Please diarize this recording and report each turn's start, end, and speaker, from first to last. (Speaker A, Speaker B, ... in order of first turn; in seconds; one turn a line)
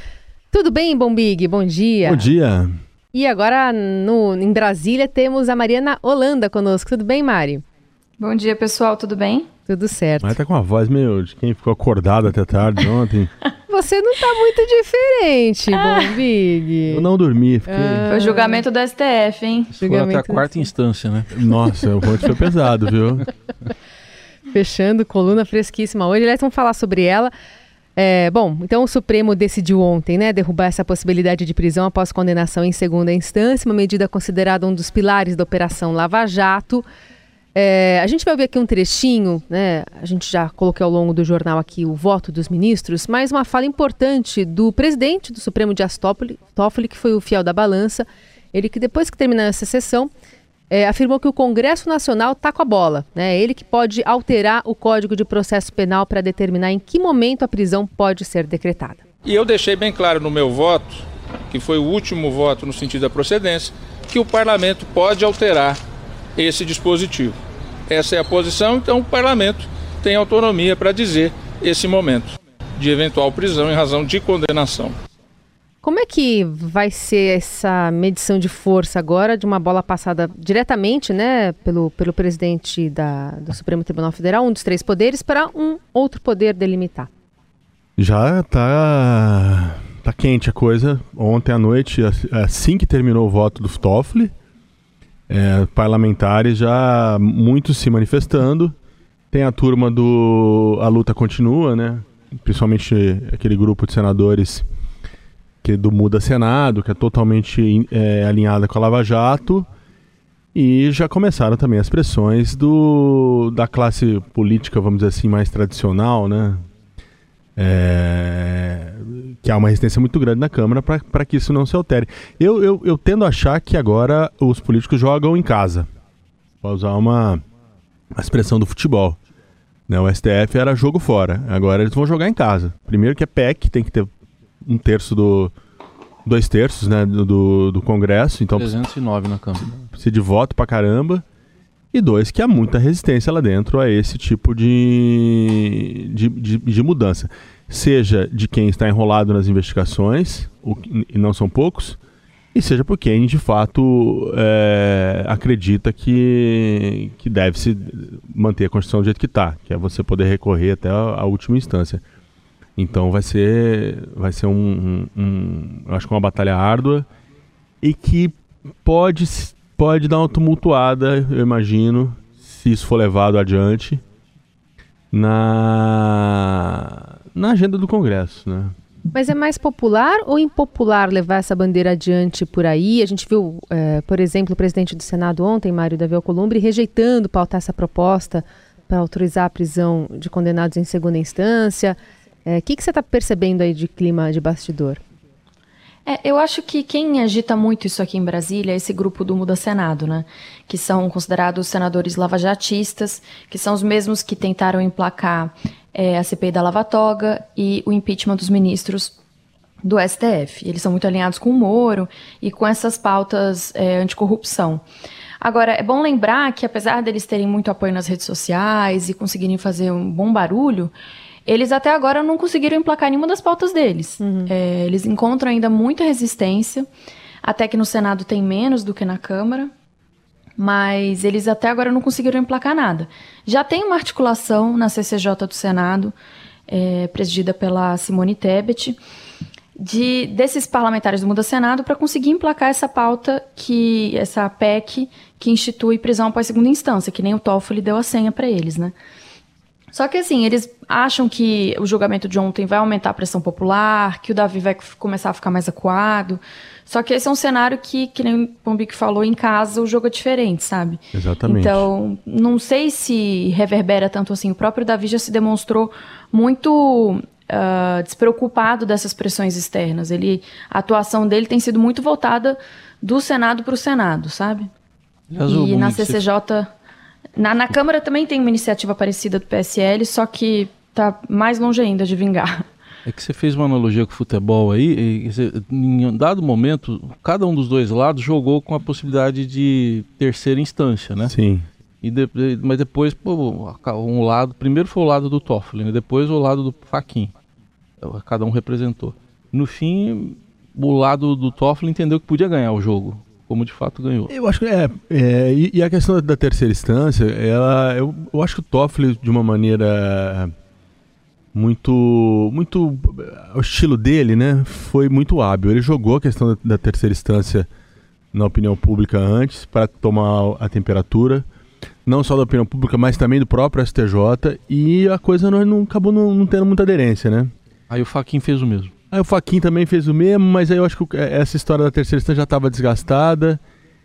Speaker A: 0.5-2.3
Speaker B: 2.0-2.8
Speaker A: 3.1-7.6
Speaker C: 8.2-9.5
Speaker A: 9.7-10.4
Speaker B: 10.2-13.3
Speaker A: 13.7-17.1
Speaker B: 16.9-18.1
Speaker A: 17.7-18.6
Speaker C: 18.1-19.7
Speaker D: 19.7-21.3
Speaker A: 19.8-20.6
Speaker B: 21.3-23.3
Speaker A: 24.5-27.3
Speaker A: 28.0-36.9
Speaker A: 37.5-50.1
Speaker A: 50.7-59.0
Speaker E: 59.2-65.8
Speaker E: 66.4-67.4
Speaker E: 67.9-75.0
Speaker A: 75.8-87.1
Speaker B: 88.0-94.3
Speaker B: 95.3-98.8
Speaker B: 99.3-104.7
Speaker B: 105.6-109.7
Speaker B: 110.5-116.7
Speaker B: 117.6-125.9
Speaker B: 126.6-127.4
Speaker B: 128.1-129.2
Speaker B: 129.9-134.1
Speaker B: 134.6-135.5
Speaker B: 136.2-138.7
Speaker D: 138.5-139.9
Speaker B: 139.9-141.2
Speaker B: 141.9-152.0
Speaker B: 152.5-162.0
Speaker B: 162.8-167.1
Speaker B: 167.8-174.0
Speaker B: 175.1-178.8
Speaker A: 179.1-195.0
Speaker C: 196.1-209.2
Speaker C: 209.8-214.8
Speaker C: 215.4-220.9
Speaker C: 221.5-226.9
Speaker A: 224.2-224.5
Speaker C: 227.4-229.7
Speaker C: 230.6-236.2
Speaker C: 236.7-239.0
Speaker C: 239.8-249.0
Speaker C: 249.9-274.7
Speaker B: 261.1-261.9
Speaker D: 275.3-276.2
Speaker C: 275.5-276.7
Speaker C: 277.4-282.7
Speaker D: 283.1-291.3
Speaker B: 291.2-291.7
Speaker D: 292.0-297.3
Speaker D: 298.0-304.3
Speaker B: 304.3-310.5
Speaker B: 311.5-317.7
Speaker B: 318.3-321.5
Speaker B: 322.1-327.5
Speaker D: 327.9-328.9
Speaker B: 329.1-333.6